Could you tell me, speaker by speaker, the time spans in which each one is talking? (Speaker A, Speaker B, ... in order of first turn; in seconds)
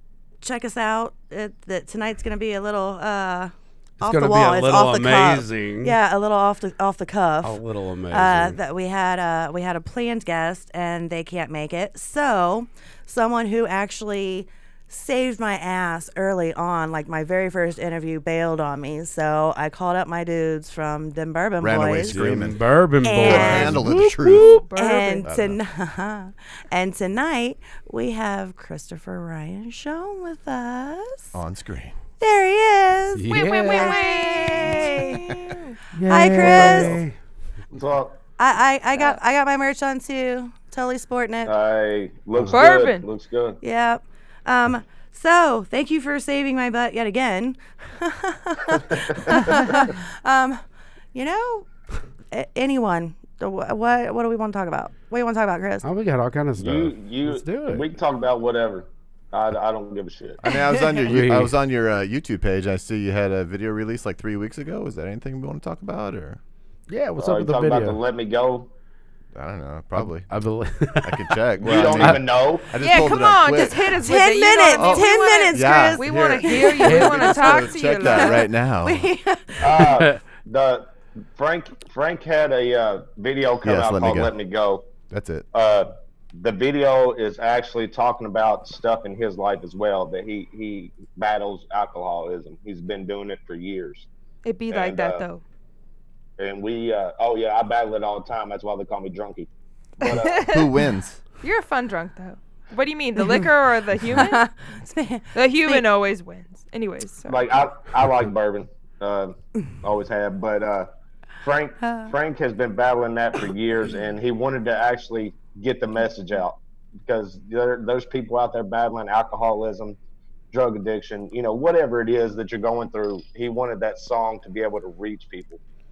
Speaker A: 0.4-22.3, 23.0-23.9, 24.4-31.3, 32.2-35.4, 36.1-37.0, 38.4-41.5, 43.6-50.6, 51.1-51.7, 52.3-55.9, 74.0-77.1, 78.8-79.9, 104.1-105.8, 111.8-112.1
Speaker B: 4.0-6.0, 7.4-8.6, 22.0-24.4, 33.1-34.0, 36.0-37.1, 55.8-57.9, 61.1-61.5, 66.9-68.0, 70.0-72.2, 76.8-77.8
Speaker C: 21.6-24.5, 25.2-25.6, 31.3-32.0, 60.4-66.4, 69.3-70.3, 71.0-74.0, 74.7-79.1, 83.6-84.3, 85.1-85.5, 100.3-101.2
Speaker D: 24.2-25.3, 33.3-35.8, 42.5-43.1, 72.8-78.5, 94.4-95.4, 100.0-100.8, 101.4-104.5, 105.3-107.5
Speaker E: 36.4-37.0, 37.7-38.2, 41.5-43.6, 56.6-60.4, 67.2-68.7, 71.6-72.8, 79.6-84.9, 85.5-94.1, 94.7-95.2, 96.4-99.5, 100.0-100.5, 107.3-110.9, 111.4-120.0, 120.5-125.6